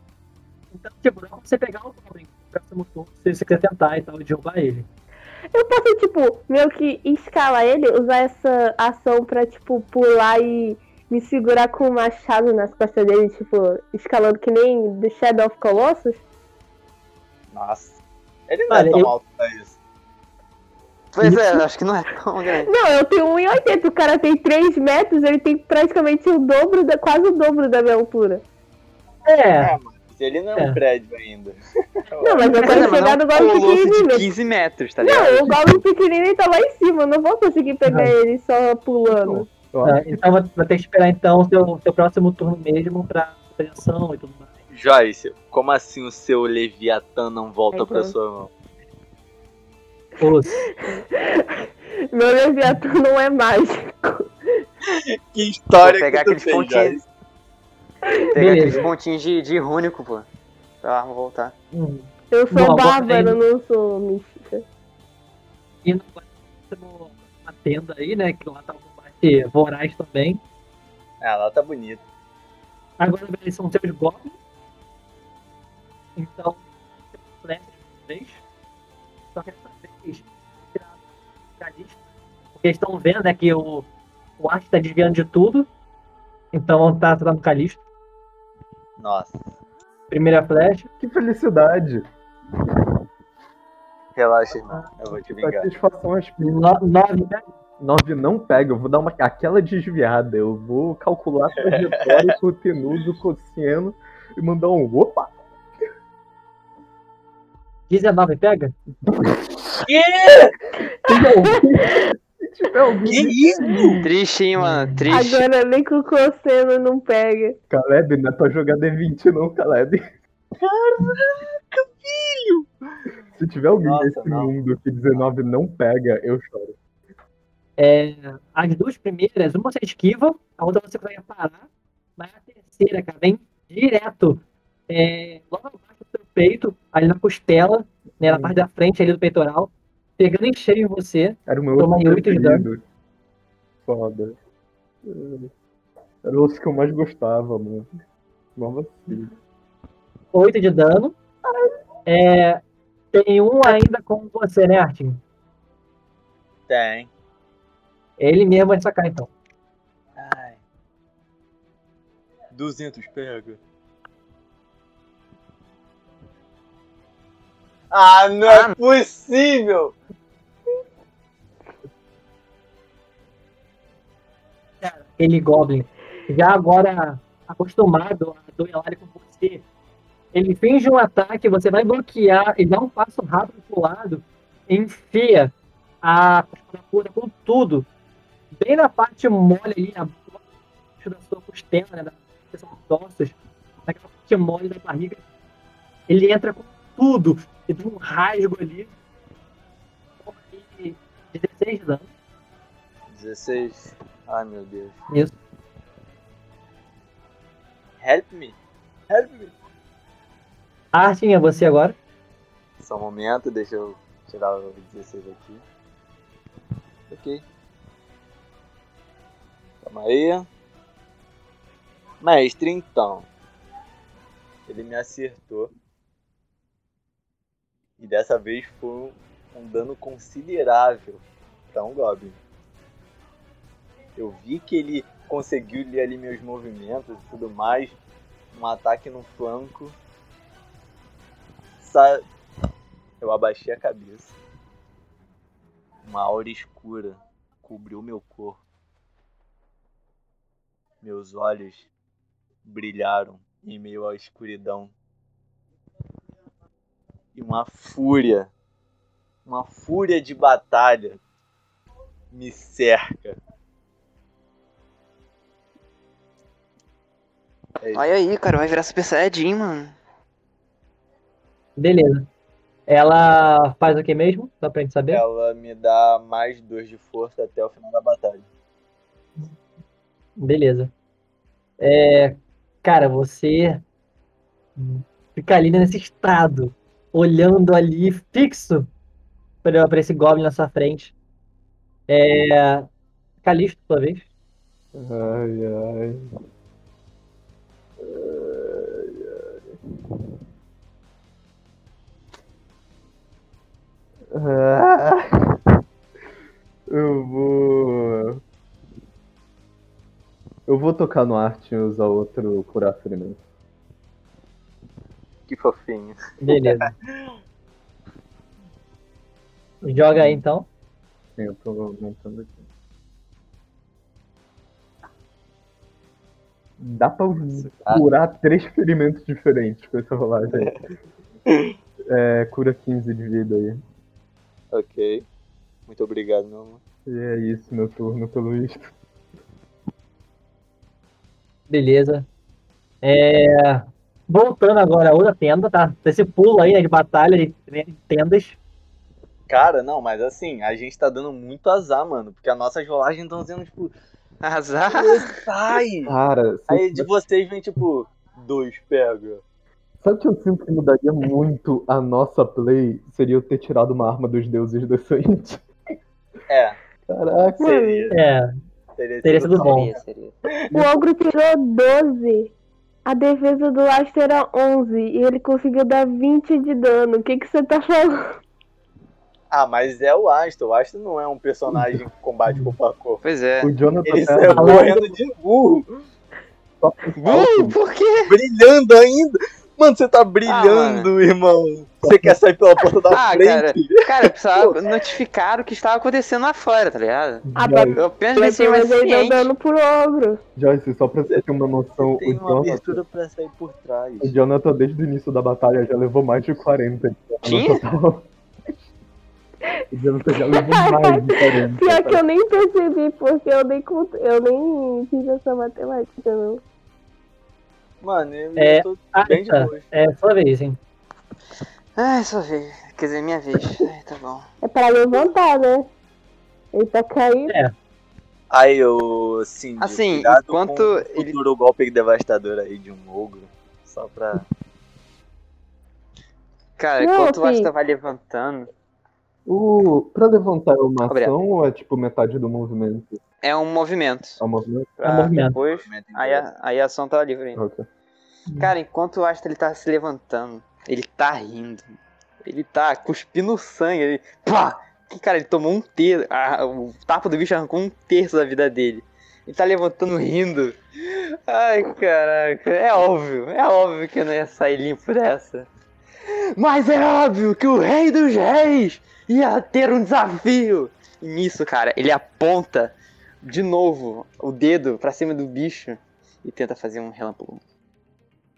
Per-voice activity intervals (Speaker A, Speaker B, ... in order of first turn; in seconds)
Speaker A: 0.7-4.9, 18.7-19.1, 29.3-29.8, 37.9-38.1, 39.9-44.5, 50.2-50.7, 58.4-58.9, 61.7-63.4, 65.8-70.4, 73.0-74.4, 76.2-78.4, 79.3-81.0, 81.6-82.0, 82.6-83.9, 84.4-85.7, 86.5-87.8, 90.1-90.9, 96.5-97.5, 107.9-108.7, 114.6-115.1, 127.8-142.7, 150.3-151.2, 152.1-152.6, 153.1-155.2, 158.2-159.3, 174.8-179.7, 180.3-187.9, 188.5-190.4, 191.0-195.2, 196.1-198.9, 200.2-202.1, 205.1-205.3, 210.9-212.0, 271.8-272.3, 272.9-275.2, 280.4-280.9, 281.8-283.8, 284.8-288.9, 289.6-291.1, 292.1-292.9, 293.4-294.3, 316.4-316.9, 319.8-320.7, 341.7-342.3, 343.0-348.6, 368.1-368.5, 369.2-369.9, 382.5-382.8, 384.5-385.1, 418.6-420.8, 427.5-427.7, 445.0-445.6
Speaker B: 5.5-16.2, 22.6-28.4, 32.2-34.3, 35.0-39.5, 47.7-48.1, 50.6-51.5, 52.1-54.6, 62.3-64.6, 115.1-117.6, 367.6-368.1, 370.7-372.5, 373.1-378.4, 397.6-400.4, 410.5-416.6, 424.6-425.9, 426.7-427.5, 437.0-437.7
Speaker C: 17.5-19.8, 29.6-32.7, 44.7-48.5, 55.3-57.0, 71.2-72.0, 89.0-89.4, 94.2-95.7, 101.6-102.3, 109.9-110.5, 113.1-114.0, 120.6-122.7, 123.8-124.5, 156.7-157.1, 160.2-160.6, 162.5-163.6, 167.9-170.0, 203.1-205.0, 208.0-208.6, 209.1-209.5, 212.8-215.6, 217.1-217.4, 219.8-220.5, 222.2-223.3, 224.7-225.7, 228.0-232.4, 234.2-238.0, 238.5-240.0, 241.8-242.2, 243.2-244.3, 246.0-248.6, 251.0-251.9, 252.6-254.9, 257.4-258.5, 259.5-261.2, 262.3-263.4, 267.8-268.1, 275.1-278.5, 315.5-316.1, 327.6-328.1, 330.5-330.8, 334.7-335.3, 335.9-336.8, 349.5-353.9, 354.9-356.2, 356.7-359.4, 366.5-366.8, 367.6-368.1, 369.0-370.6, 379.5-383.2, 384.1-385.9, 388.3-394.8, 402.0-404.4, 418.0-419.9, 428.5-434.4, 445.6-446.5
Speaker D: 21.1-22.7, 32.5-35.8, 55.8-57.0, 58.3-60.3, 60.8-61.5, 114.0-115.5, 168.5-168.8, 267.9-269.9, 354.4-355.4, 369.6-370.4, 383.2-383.7, 387.2-388.3, 390.5-391.1, 393.1-399.5, 407.4-407.8, 422.0-424.5, 429.8-431.4, 436.8-438.7, 441.1-441.3, 443.4-444.4, 445.0-447.6, 448.6-451.9, 452.4-465.7, 466.6-477.6
Speaker E: 39.1-40.2, 91.0-92.1, 95.2-96.6, 97.8-105.3, 109.1-109.8, 111.0-114.1, 117.7-120.0, 123.3-126.8, 138.2-138.6, 141.5-142.8, 143.8-144.4, 145.1-145.5, 146.2-147.9, 148.6-149.3, 294.9-296.2, 298.0-299.6, 304.3-305.3, 306.9-308.4, 310.7-313.4, 320.1-320.4, 321.4-322.7, 326.8-330.7, 332.1-333.8, 337.1-338.9, 356.1-357.1, 360.0-365.6, 367.1-367.9, 381.7-382.0, 383.6-384.9, 386.8-387.8, 392.0-392.4, 397.6-398.0, 400.6-403.0, 404.2-408.3, 409.9-412.2, 439.5-443.2, 444.4-444.9, 447.6-447.9